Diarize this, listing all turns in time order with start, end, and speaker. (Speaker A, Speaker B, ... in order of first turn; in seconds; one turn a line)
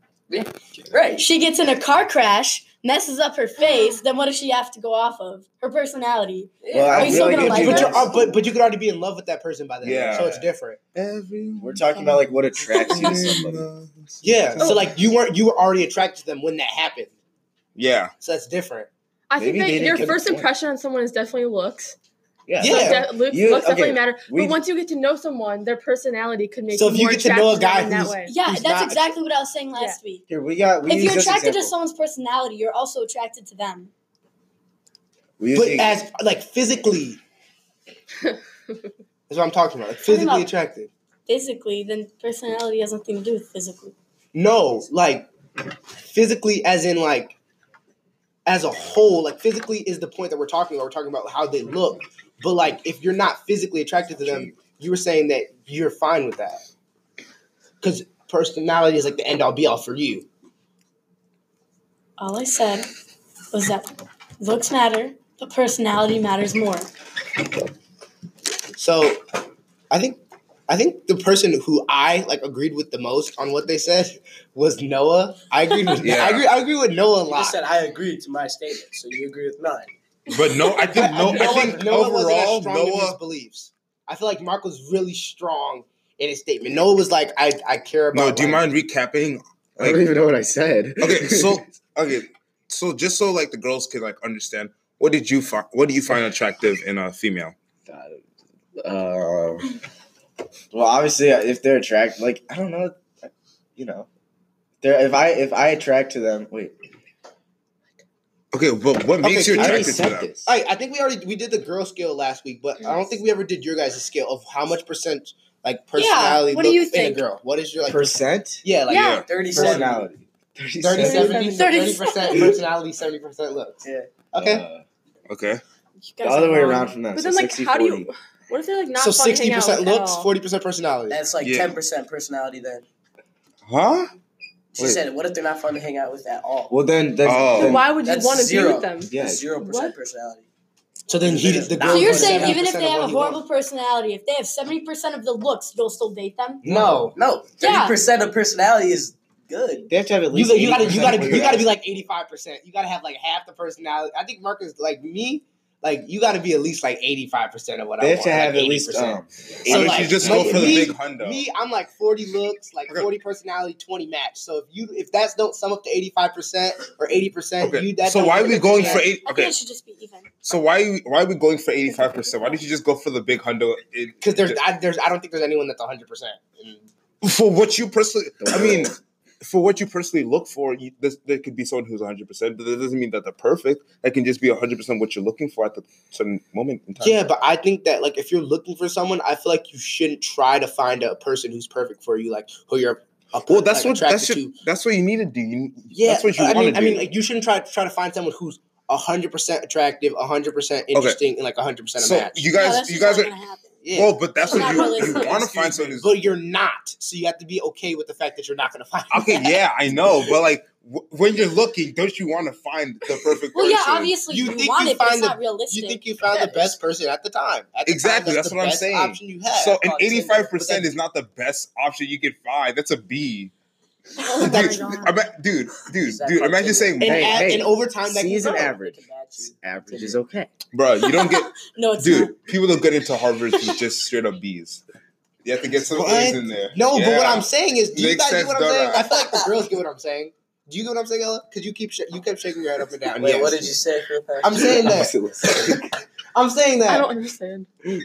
Speaker A: 0.3-1.3
Speaker B: 1.1-7.9
Speaker A: 6.6-8.2
Speaker C: 6.7-8.3
Speaker D: 7.0-10.8
Speaker E: 9.8-14.8
Speaker C: 11.6-13.7
Speaker D: 14.2-17.1
Speaker E: 17.8-18.1
Speaker D: 18.2-18.9
Speaker F: 19.3-22.0
Speaker C: 19.4-20.5
Speaker C: 22.5-24.6
Speaker D: 22.6-23.1
Speaker F: 22.6-28.3
Speaker D: 26.7-29.2
Speaker B: 28.2-30.2
Speaker C: 30.3-31.7
Speaker B: 30.9-33.9
Speaker C: 35.4-35.9
Speaker D: 35.5-37.2
Speaker D: 39.3-40.9
Speaker B: 40.0-40.5
Speaker B: 41.3-43.9
Speaker D: 44.3-45.3
Speaker D: 46.0-47.4
Speaker D: 48.5-56.6
Speaker D: 57.8-60.3
Speaker B: 62.2-62.9
Speaker B: 63.5-66.9
Speaker D: 68.8-69.2
Speaker D: 69.9-77.6
Speaker E: 76.0-76.5
Speaker A: 77.3-79.9
Speaker E: 80.3-83.2
Speaker D: 80.9-88.7
Speaker E: 88.1-90.1
Speaker C: 89.8-91.6
Speaker E: 91.0-97.5
Speaker C: 97.9-98.2
Speaker C: 98.8-99.7
Speaker C: 100.7-104.1
Speaker C: 104.8-106.8
Speaker E: 108.5-110.3
Speaker D: 109.2-119.9
Speaker C: 109.4-110.5
Speaker B: 116.0-117.2
Speaker C: 117.8-118.7
Speaker B: 118.9-119.3
Speaker E: 118.9-119.3
Speaker A: 119.2-120.0
Speaker C: 119.5-121.6
Speaker D: 120.8-123.8
Speaker B: 121.0-122.6
Speaker A: 123.8-124.1
Speaker D: 124.3-124.6
Speaker C: 124.3-124.8
Speaker E: 125.3-125.6
Speaker B: 126.0-127.0
Speaker C: 126.2-128.1
Speaker F: 127.0-130.3
Speaker D: 129.0-131.2
Speaker A: 131.1-132.8
Speaker E: 131.4-131.8
Speaker E: 133.7-134.1
Speaker A: 134.8-136.7
Speaker C: 136.7-137.9
Speaker E: 137.2-137.9
Speaker F: 137.5-139.9
Speaker A: 138.0-140.5
Speaker C: 139.1-139.5
Speaker D: 141.1-143.4
Speaker A: 141.2-142.6
Speaker B: 141.8-146.7
Speaker D: 146.6-147.2
Speaker C: 146.7-147.1
Speaker A: 147.1-149.9
Speaker B: 147.6-148.0
Speaker C: 149.9-151.7
Speaker D: 150.3-169.1
Speaker C: 158.0-160.9
Speaker E: 159.7-161.4
Speaker E: 167.6-169.6
Speaker B: 168.4-170.3
Speaker E: 170.4-174.6
Speaker D: 174.2-176.9
Speaker E: 177.2-187.3
Speaker C: 178.4-179.0
Speaker D: 187.0-194.6
Speaker E: 193.5-197.1
Speaker D: 195.9-202.5
Speaker E: 200.9-201.2
Speaker E: 202.0-203.4
Speaker B: 202.5-203.8
Speaker D: 203.8-210.1
Speaker E: 203.9-206.2
Speaker B: 204.4-205.4
Speaker E: 209.1-214.2
Speaker B: 213.5-216.2
Speaker D: 214.3-219.8
Speaker F: 216.3-216.7
Speaker E: 217.9-223.5
Speaker A: 219.8-220.8
Speaker B: 224.3-225.1
Speaker E: 224.3-227.3
Speaker F: 224.6-225.1
Speaker A: 226.0-227.6
Speaker C: 227.0-230.5
Speaker D: 227.0-228.7
Speaker A: 228.4-230.2
Speaker E: 230.7-234.8
Speaker B: 231.0-232.5
Speaker B: 233.0-233.8
Speaker E: 235.4-239.1
Speaker D: 235.8-243.8
Speaker A: 239.2-239.5
Speaker A: 243.2-244.9
Speaker D: 244.4-247.1
Speaker C: 244.6-245.9
Speaker F: 246.9-247.7